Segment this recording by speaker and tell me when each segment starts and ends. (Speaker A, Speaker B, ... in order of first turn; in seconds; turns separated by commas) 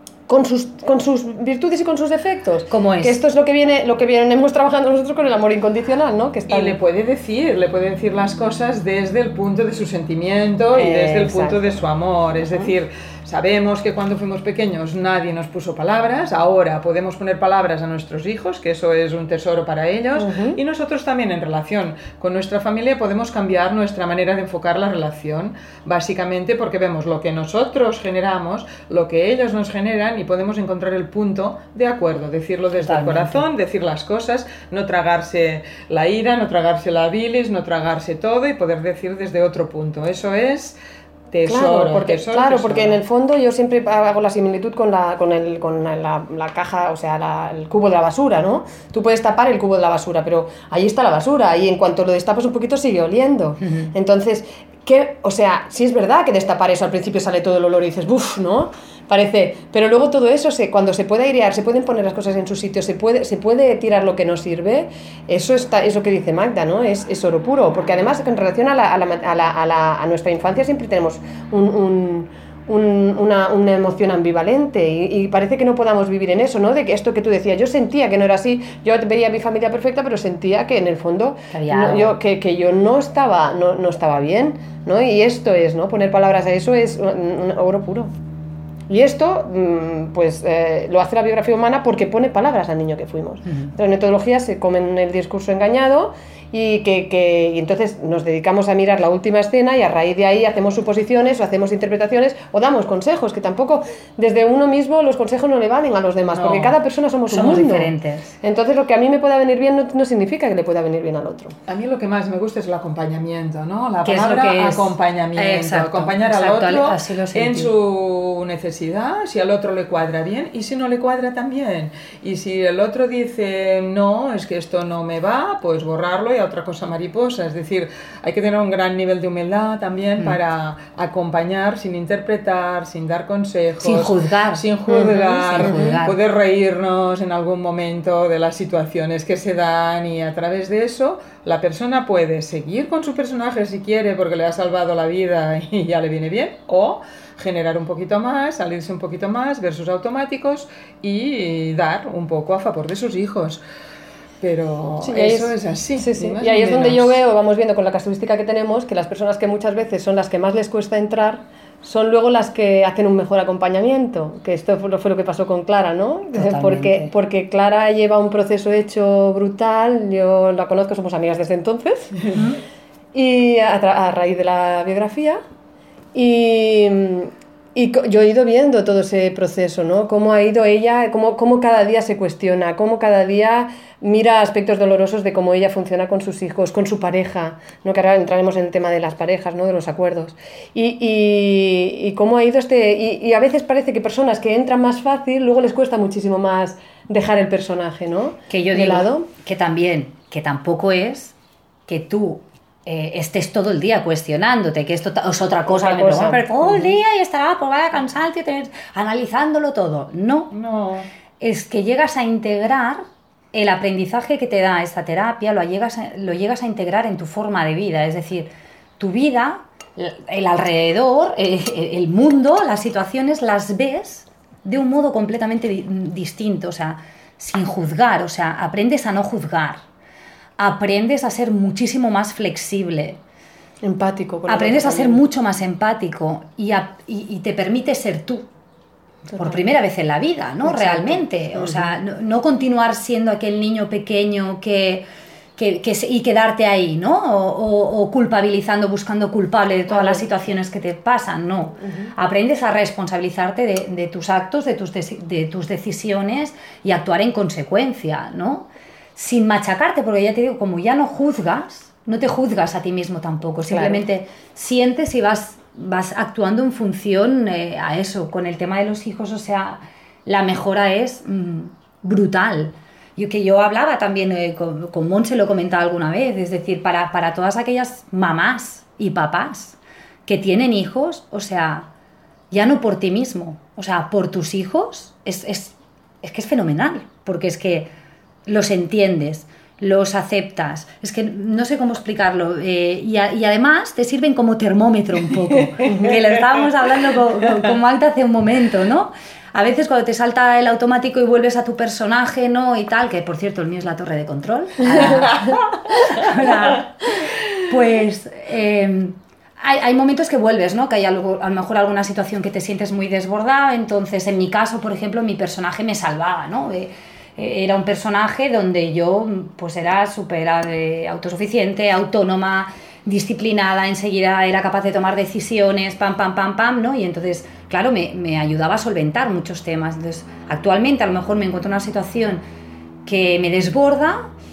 Speaker A: 0.3-6.8, Speaker B: 2.7-3.2, Speaker C: 6.5-40.8, Speaker A: 10.7-11.7, Speaker A: 20.2-20.6, Speaker B: 32.8-33.4, Speaker C: 41.3-43.0, Speaker A: 41.5-88.1, Speaker B: 53.6-53.9, Speaker B: 81.5-82.2, Speaker A: 88.9-111.6, Speaker B: 93.5-93.7, Speaker C: 106.3-106.7, Speaker B: 107.3-108.3, Speaker C: 111.7-153.6, Speaker B: 114.0-117.7, Speaker B: 133.8-136.2, Speaker A: 134.9-136.0, Speaker C: 154.4-157.2, Speaker A: 155.0-172.4, Speaker B: 166.3-167.1, Speaker A: 173.1-175.4, Speaker A: 176.1-199.3, Speaker B: 198.5-201.4, Speaker B: 201.9-210.5, Speaker A: 205.7-206.9, Speaker C: 210.5-211.1, Speaker B: 211.4-229.8, Speaker B: 230.6-233.2, Speaker A: 233.8-235.2, Speaker B: 234.5-238.5, Speaker A: 239.3-239.6, Speaker B: 239.3-245.1, Speaker A: 240.6-241.9, Speaker B: 245.6-281.9, Speaker A: 249.9-250.2, Speaker A: 251.8-252.1, Speaker A: 263.7-264.0, Speaker B: 282.5-287.9, Speaker B: 288.5-307.1, Speaker C: 295.8-296.1, Speaker A: 295.9-296.2, Speaker C: 305.1-305.6, Speaker B: 307.6-332.4, Speaker B: 333.1-334.3